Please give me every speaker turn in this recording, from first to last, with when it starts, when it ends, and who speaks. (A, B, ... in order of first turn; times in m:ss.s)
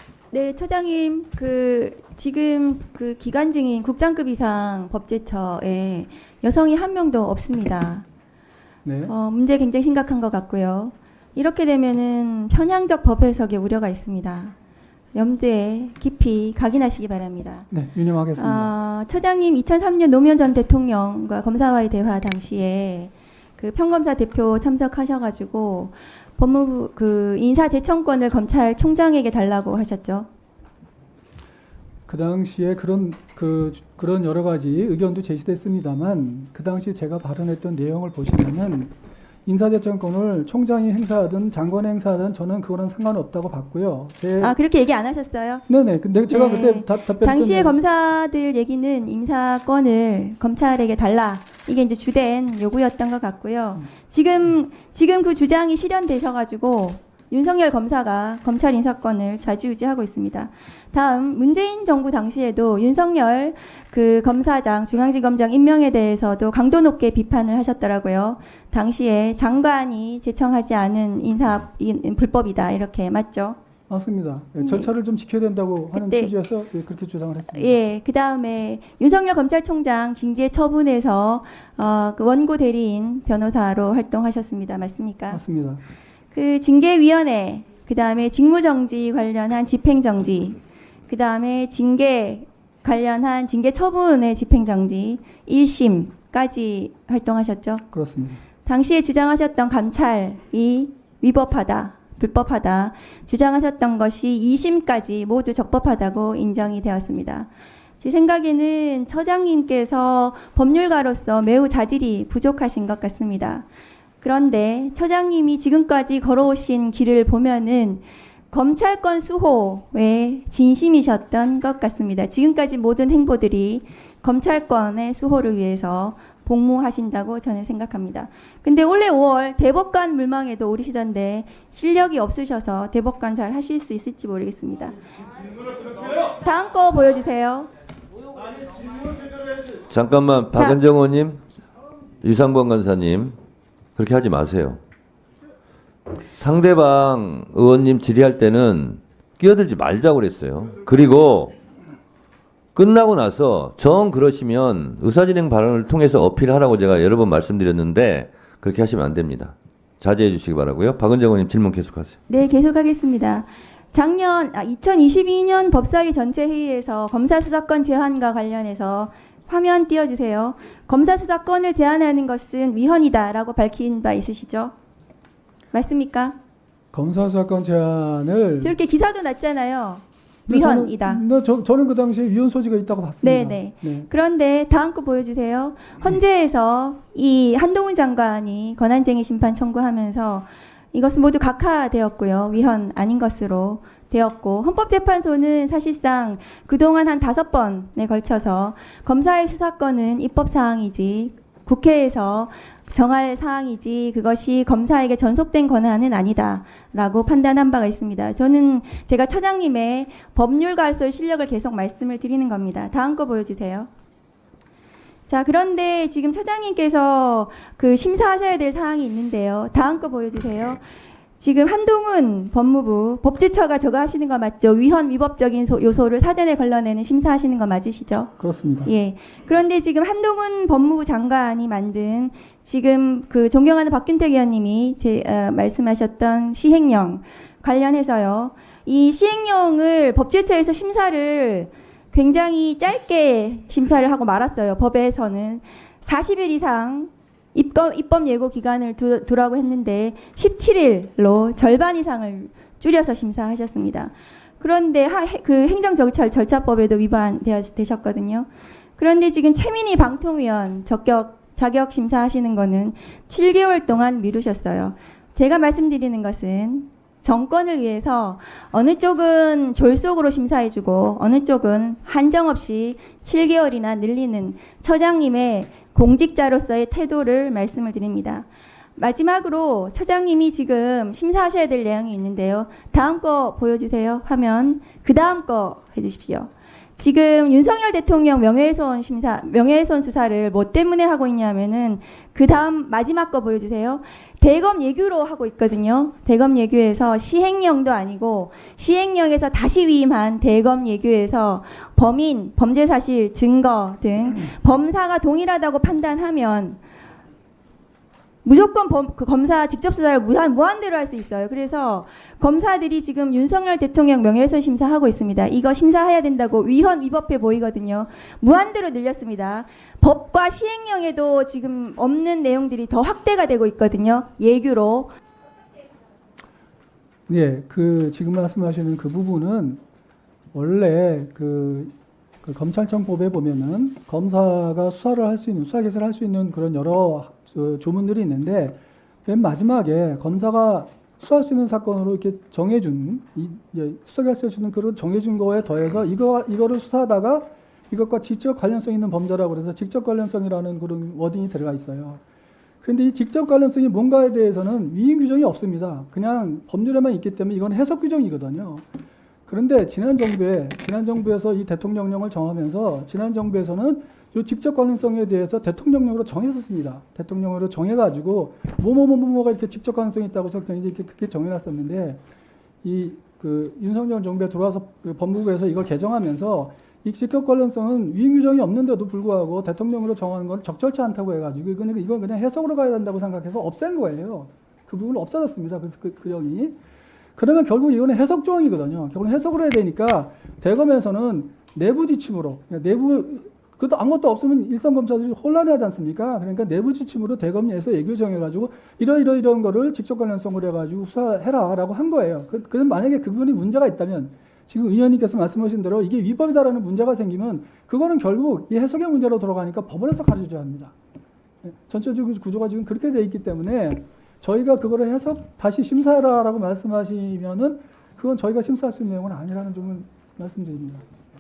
0:00.3-0:08.0 A
0:08.8-0:09.1 B
0:09.1-0:14.5 A
0:15.1-0:17.7 A
0:17.7-0:18.7 B
0:18.4-0:30.3 A
0:32.1-0:38.9 B
0:39.4-0:44.5 B
0:44.4-0:45.6 A
0:45.7-0:47.8 B
0:46.3-1:13.6 A
1:13.9-1:17.8 B
1:14.6-1:14.9 A
1:15.9-1:16.3 A
1:17.5-1:25.4 A
1:25.3-1:25.8 B
1:26.3-1:37.8 A
1:37.9-1:38.4 B
1:38.6-1:47.5 A
1:48.0-1:53.6 A
1:54.2-2:15.0 A
2:16.2-2:17.7 A
2:19.9-2:21.4 C
2:22.2-2:23.4 C
2:24.0-2:24.8 C
2:26.3-2:31.5 C
2:32.7-2:42.2 C
2:42.3-2:54.7 A
2:55.7-2:56.4 A
2:56.9-2:58.7 B
2:58.6-3:01.2 A
3:00.5-3:04.1 B
3:03.2-3:33.9 A
3:35.3-3:40.8 A
3:41.4-3:48.3 A
3:48.4-3:48.9 B
3:48.8-5:06.8 A
5:08.4-5:25.1 A
5:27.3-5:29.8 B
5:30.5-5:31.9 B
5:32.4-5:52.2 B
5:52.8-5:58.8 B
5:59.5-6:12.2 B
6:12.8-6:26.8 B
6:27.4-6:50.9 B
6:51.6-7:01.0 B